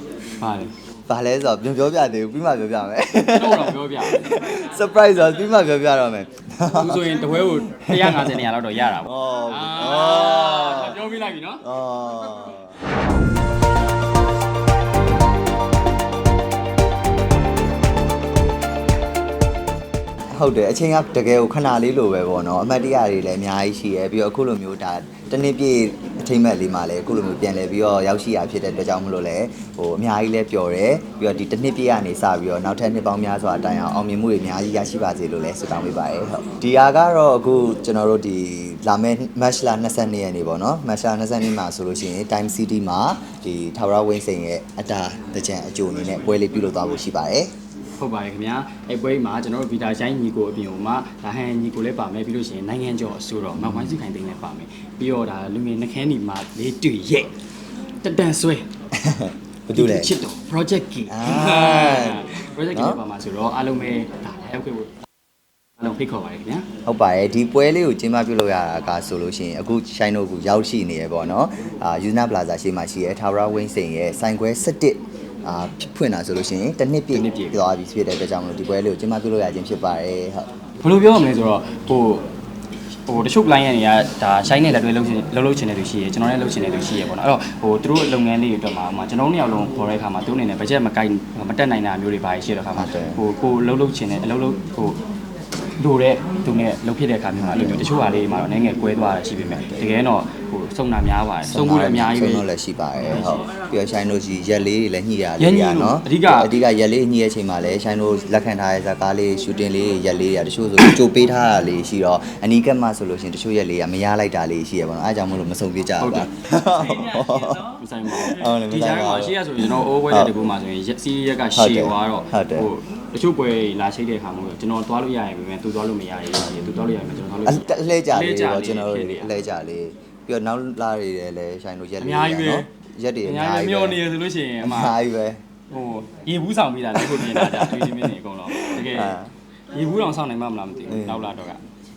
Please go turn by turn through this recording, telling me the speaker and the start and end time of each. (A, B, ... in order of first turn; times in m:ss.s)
0:00.4-0:00.7 A
0:01.1-0:08.5 B
0:03.3-0:04.3 A
0:06.7-0:11.6 A
0:09.0-0:10.9 B
0:11.6-0:12.8 B
0:20.4-0:47.5 B
0:48.0-0:57.4 A
0:58.0-0:58.7 A
0:59.0-1:00.1 B
0:59.7-1:04.9 A
1:01.1-1:03.0 B
1:05.8-1:06.7 A
1:06.9-1:20.5 B
1:17.1-1:17.6 A
1:20.8-1:22.3 A
1:23.1-1:35.0 A
1:32.8-1:33.2 B
1:35.8-1:42.4 A
1:37.4-1:37.9 B
1:39.4-1:39.8 B
1:41.5-2:00.3 B
1:43.0-1:43.5 A
1:45.4-1:46.6 A
1:56.0-1:56.3 A
1:57.7-2:09.4 A
2:01.6-2:02.7 B
2:07.5-2:14.0 B
2:12.0-2:12.7 A
2:13.2-2:15.0 A
2:14.6-2:15.4 B
2:15.7-2:19.2 A
2:17.0-2:19.3 B
2:19.7-2:21.6 A
2:20.9-2:21.3 B